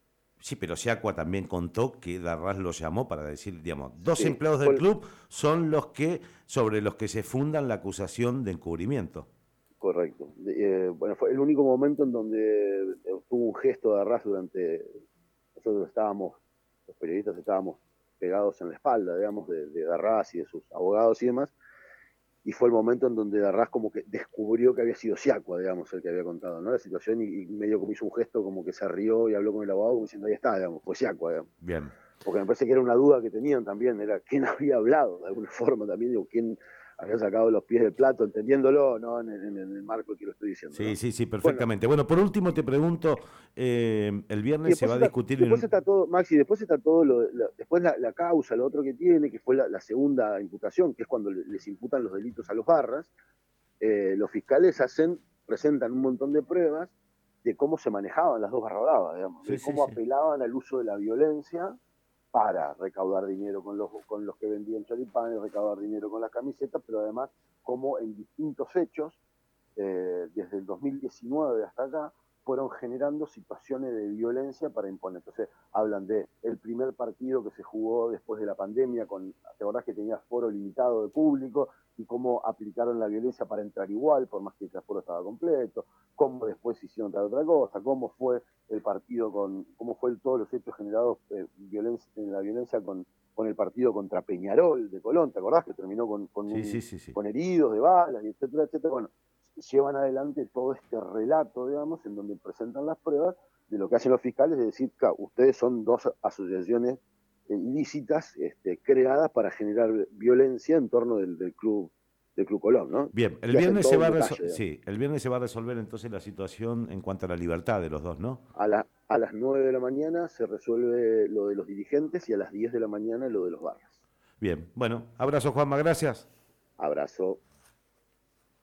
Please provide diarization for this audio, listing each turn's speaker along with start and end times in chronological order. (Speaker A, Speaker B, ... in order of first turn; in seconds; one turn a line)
Speaker A: 0.4-9.3
Speaker B: 4.1-4.8
Speaker B: 9.8-15.0
Speaker B: 15.6-21.5
Speaker B: 22.4-31.5
Speaker A: 31.6-31.9
Speaker B: 32.2-41.7
Speaker A: 40.7-45.6
Speaker B: 44.6-53.1
Speaker B: 53.8-56.9
Speaker B: 57.4-61.7
Speaker A: 59.4-60.0
Speaker B: 62.3-69.2
Speaker B: 69.8-114.6
Speaker A: 96.5-97.2
Speaker A: 113.1-118.4
Speaker B: 118.5-124.0
Speaker A: 124.4-126.3
Speaker B: 126.8-127.4